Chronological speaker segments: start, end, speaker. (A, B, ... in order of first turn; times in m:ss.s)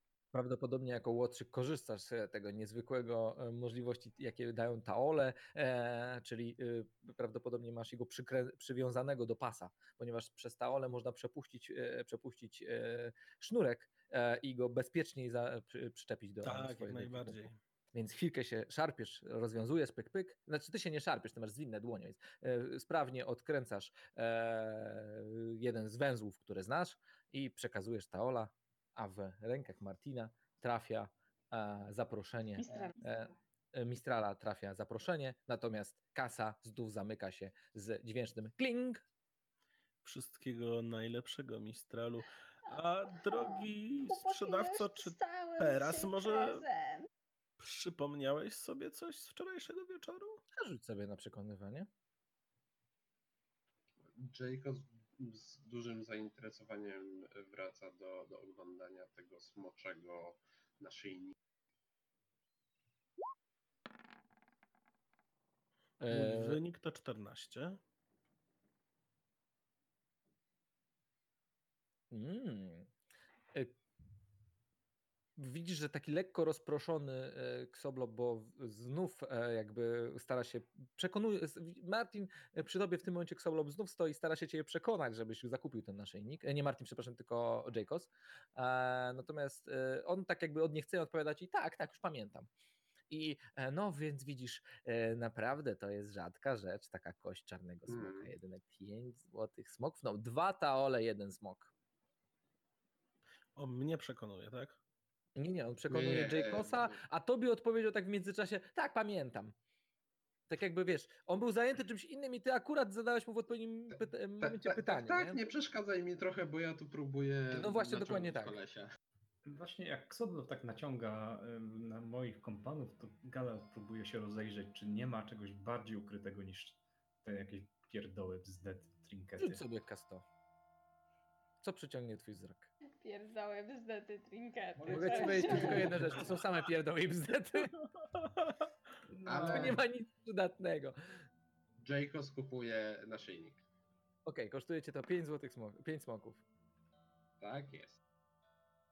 0:00.3-0:17.4 A
0:16.4-0:17.6 B
0:17.9-0:39.0 A
0:32.6-0:33.0 C
0:40.0-0:46.6 B
0:43.1-0:47.1 C
0:47.6-0:50.4 B
0:50.6-0:51.9 A
0:54.2-1:01.4 D
1:06.0-1:06.6 A
1:06.1-1:07.8 B
1:12.1-1:12.9 A
1:15.4-1:32.5 A
1:33.1-1:41.7 A
1:37.9-1:38.3 D
1:43.6-1:44.8 B
1:45.4-1:49.6 A
1:45.9-1:47.0 D
1:50.5-1:55.4 A
1:54.4-1:58.9 D
1:57.5-1:58.6 A
1:59.4-2:09.6 E
2:09.4-2:10.2 A
2:11.6-2:12.7 A
2:13.0-2:16.1 C
2:14.9-2:17.7 A
2:14.9-2:16.0 D
2:18.2-2:18.7 B
2:19.1-2:19.8 E
2:19.2-2:19.8 D
2:19.5-2:21.0 A
2:21.8-2:23.6 D
2:24.2-2:26.4 A
2:27.4-2:28.0 D